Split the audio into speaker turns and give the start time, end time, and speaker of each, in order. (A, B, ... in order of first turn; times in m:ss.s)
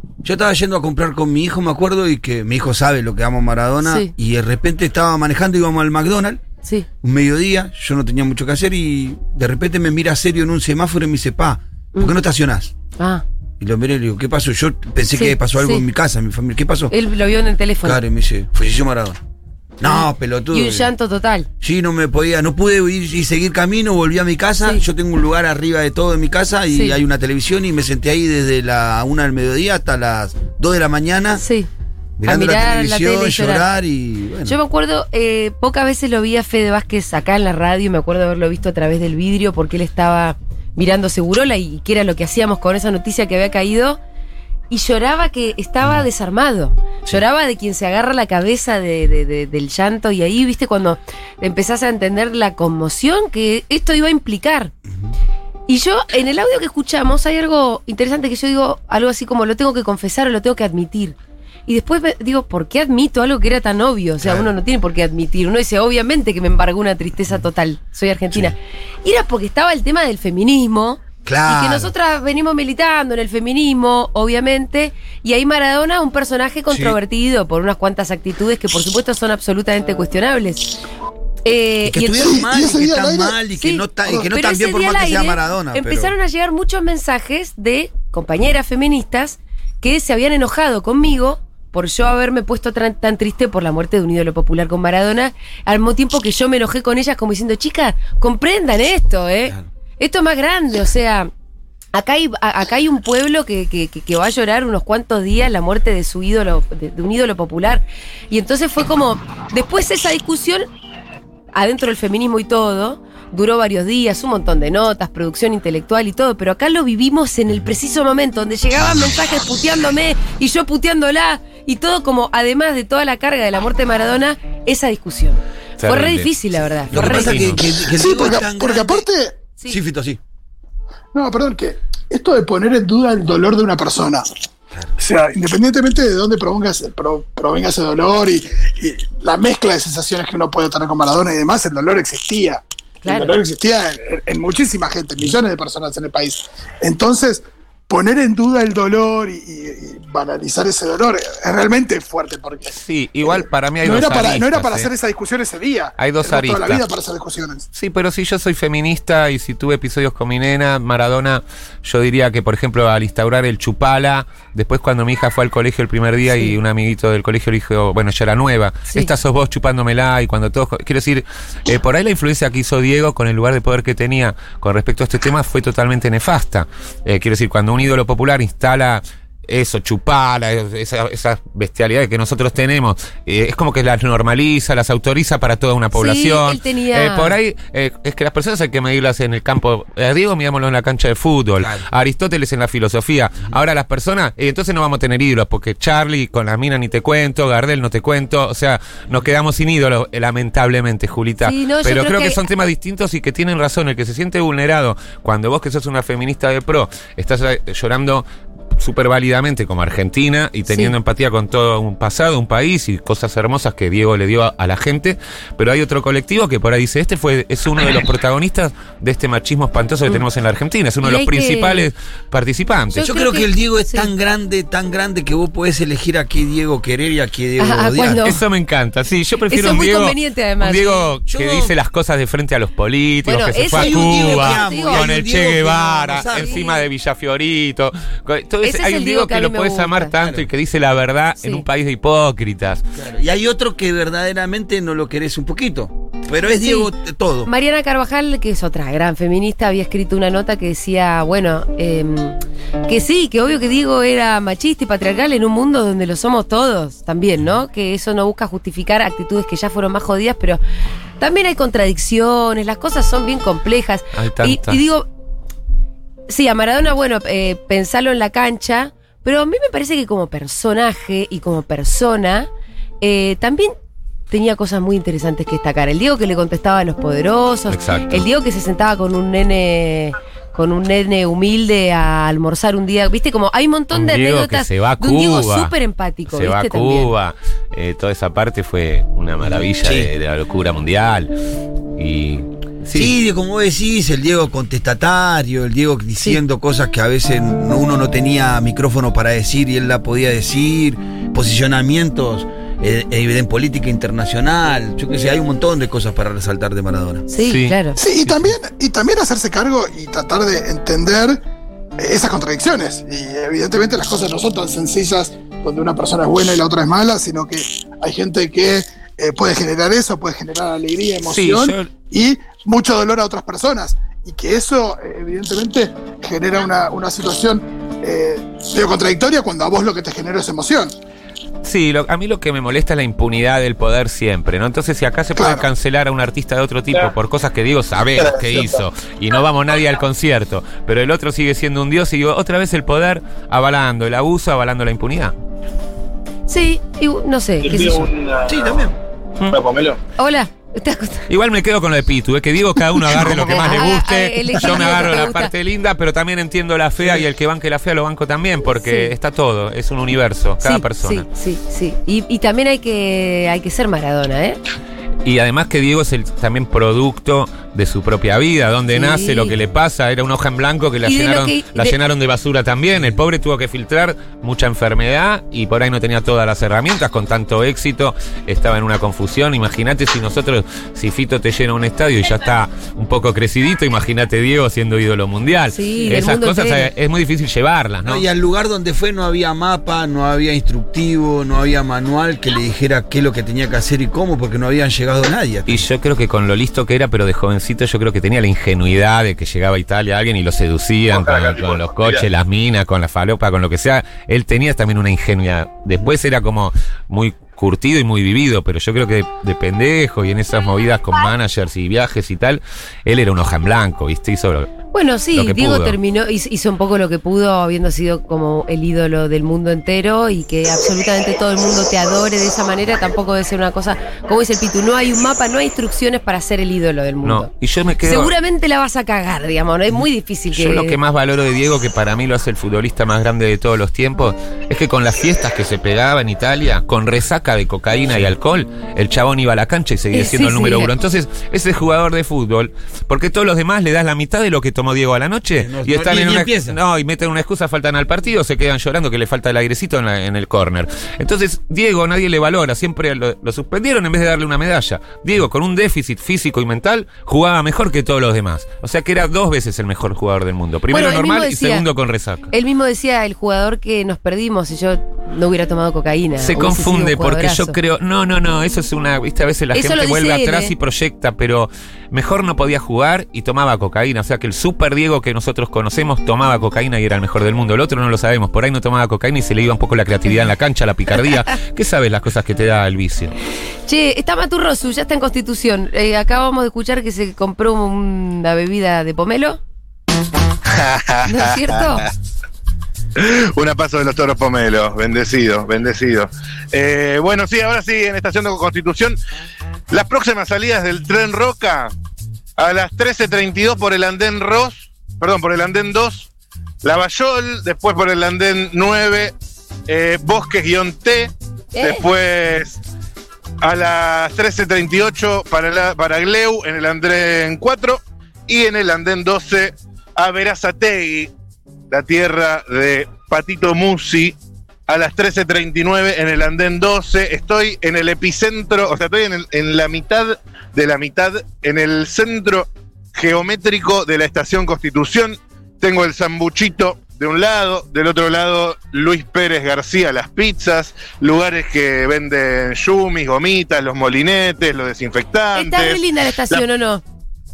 0:00.2-0:06.4 A
0:03.8-0:04.1 B
0:07.0-0:12.7 A
0:13.0-0:13.2 B
0:13.6-0:16.9 A
0:15.1-0:15.8 B
0:16.9-0:18.0 B
0:17.8-0:19.2 A
0:19.8-0:20.9 A
0:19.8-0:21.5 B
0:21.6-0:31.4 A
0:26.7-0:27.0 B
0:31.4-0:31.7 B
0:32.2-0:34.6 A
0:32.3-0:33.7 B
0:34.4-0:44.0 B
0:44.7-0:54.7 B
0:55.7-1:01.2 B
1:01.7-1:20.8 B
1:04.2-1:04.5 A
1:11.2-1:11.9 A
1:16.7-1:17.0 A
1:21.4-1:22.4 B
1:21.8-1:26.1 A
1:22.3-1:23.4 C
1:23.6-1:41.3 B
1:41.9-1:50.7 B
1:51.5-2:07.5 B
2:05.8-2:06.3 D
2:06.9-2:09.1 A
2:06.9-2:07.6 D
2:07.8-2:09.4 C
2:09.7-2:10.2 A
2:11.1-2:14.2 C
2:15.0-2:37.6 C
2:23.0-2:23.4 B
2:32.7-2:34.9 D
2:36.0-2:36.8 D
2:37.8-3:28.2 D
2:46.3-2:46.6 B
3:05.9-3:07.4 B
3:11.6-3:11.9 A
3:21.4-3:22.4 B
3:28.8-3:43.1 D
3:30.7-3:30.9 B
3:41.0-3:41.9 B
3:42.9-3:44.1 B
3:43.0-3:48.2 A
3:47.6-3:48.4 B
3:48.2-4:02.8 D
3:49.5-3:51.1 B
3:51.3-3:51.8 A
3:53.2-3:55.1 B
3:53.7-3:56.6 A
3:56.3-3:56.8 B
3:58.6-4:00.1 B
4:00.2-4:00.5 A
4:03.0-4:07.5 A
4:06.5-4:06.9 B
4:07.4-4:20.6 B
4:21.2-4:25.1 B
4:24.1-4:24.8 D
4:26.3-4:32.5 B
4:33.0-4:33.7 B
4:34.3-4:47.1 B
4:37.7-4:38.3 D
4:43.9-4:45.7 D
4:46.3-4:51.3 D
4:49.8-4:50.1 A
4:52.0-4:53.1 D
4:52.9-5:07.3 A
5:07.3-5:08.0 B
5:07.5-5:08.5 D
5:08.0-5:11.4 C
5:12.0-5:30.9 C
5:21.2-5:21.9 D
5:31.6-5:45.3 D
5:35.4-5:35.7 C
5:46.5-5:48.1 B
5:47.6-5:48.6 E
5:48.5-5:49.0 A
5:49.5-5:50.0 E
5:50.2-5:51.3 B
5:51.3-6:01.3 D
5:53.2-5:53.5 E
5:53.5-5:55.5 B
5:58.7-5:59.1 B
6:00.6-6:04.6 B
6:05.2-6:28.2 D
6:08.9-6:09.6 B
6:11.0-6:12.0 B
6:25.7-6:26.9 B
6:28.0-6:35.8 A
6:35.7-6:54.7 D
6:41.1-6:42.2 E
6:54.9-7:07.5 B
6:55.4-6:56.0 D
7:07.2-7:08.3 D
7:08.0-7:11.0 B
7:10.5-7:42.5 D
7:20.1-7:20.9 B
7:25.6-7:26.8 A
7:40.9-7:41.8 B
7:42.5-7:47.8 B
7:46.4-8:03.4 D
7:49.7-7:50.7 B
8:03.9-8:09.6 B
8:10.7-8:12.0 E
8:11.3-8:12.1 B
8:13.2-8:19.2 E
8:19.9-8:21.9 E
8:22.6-8:26.3 E
8:26.8-8:29.3 E
8:29.9-8:32.8 E
8:31.7-8:32.1 B
8:33.6-8:41.3 E
8:41.9-8:44.4 E
8:44.9-9:06.6 E
9:05.5-9:07.0 B